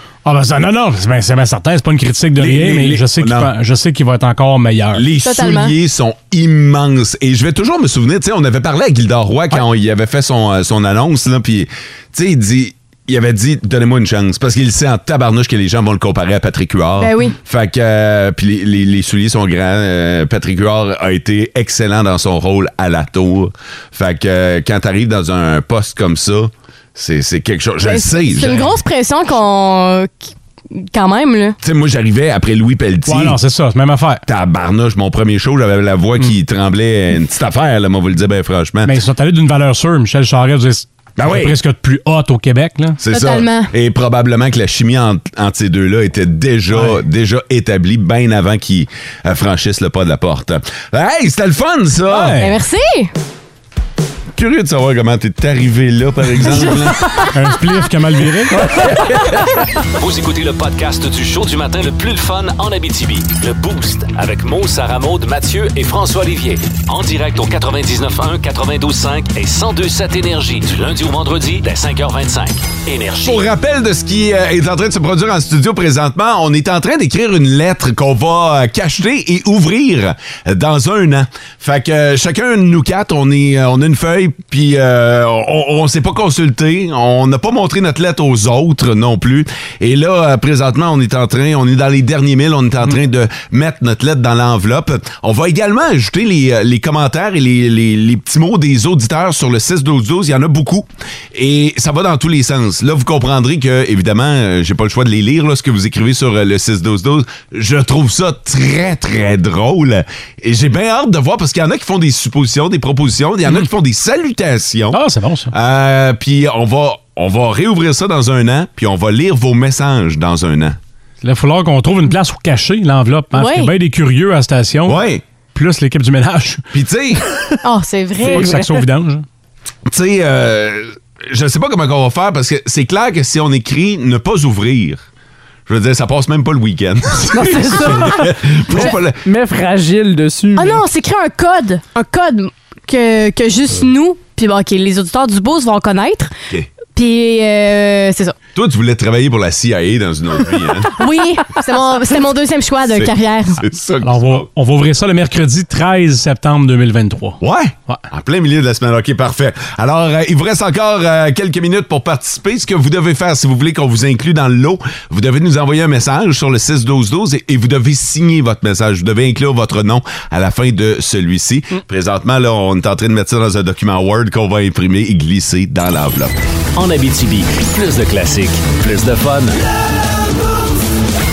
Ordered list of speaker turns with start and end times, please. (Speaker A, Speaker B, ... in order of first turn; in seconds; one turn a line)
Speaker A: 0.2-5.0
Speaker B: 2.4-3.5
Speaker B: 4.9-28.7
Speaker C: 5.2-5.7
Speaker C: 17.0-17.4
Speaker C: 27.8-30.2
Speaker C: 30.7-31.6
Speaker B: 31.6-33.4
Speaker A: 33.0-34.2
Speaker B: 34.2-38.9
Speaker A: 38.8-43.0
Speaker B: 41.2-41.5
Speaker B: 43.0-52.4
Speaker C: 43.1-43.7
Speaker A: 52.1-52.5
Speaker C: 52.4-53.1
Speaker B: 54.3-57.1
Speaker C: 56.5-57.2
Speaker A: 57.3-58.7
Speaker D: 58.5-58.9
Speaker E: 59.9-73.4
Speaker B: 73.2-115.0
Speaker A: 114.9-115.5
Speaker B: 115.5-120.8
Speaker A: 121.2-125.0
Speaker C: 123.3-123.7
Speaker B: 124.8-125.2
Speaker A: 125.5-126.6
Speaker B: 126.7-127.2
Speaker C: 127.6-128.6
Speaker A: 128.3-129.2
Speaker D: 128.3-128.8
Speaker B: 129.8-135.0
Speaker B: 135.7-139.2
Speaker D: 137.3-140.8
Speaker C: 140.6-146.3
Speaker C: 146.9-148.3
Speaker B: 148.5-150.9
Speaker C: 151.0-153.6
Speaker B: 152.9-154.4
Speaker A: 154.0-157.4
Speaker B: 157.4-176.3
Speaker E: 176.7-179.6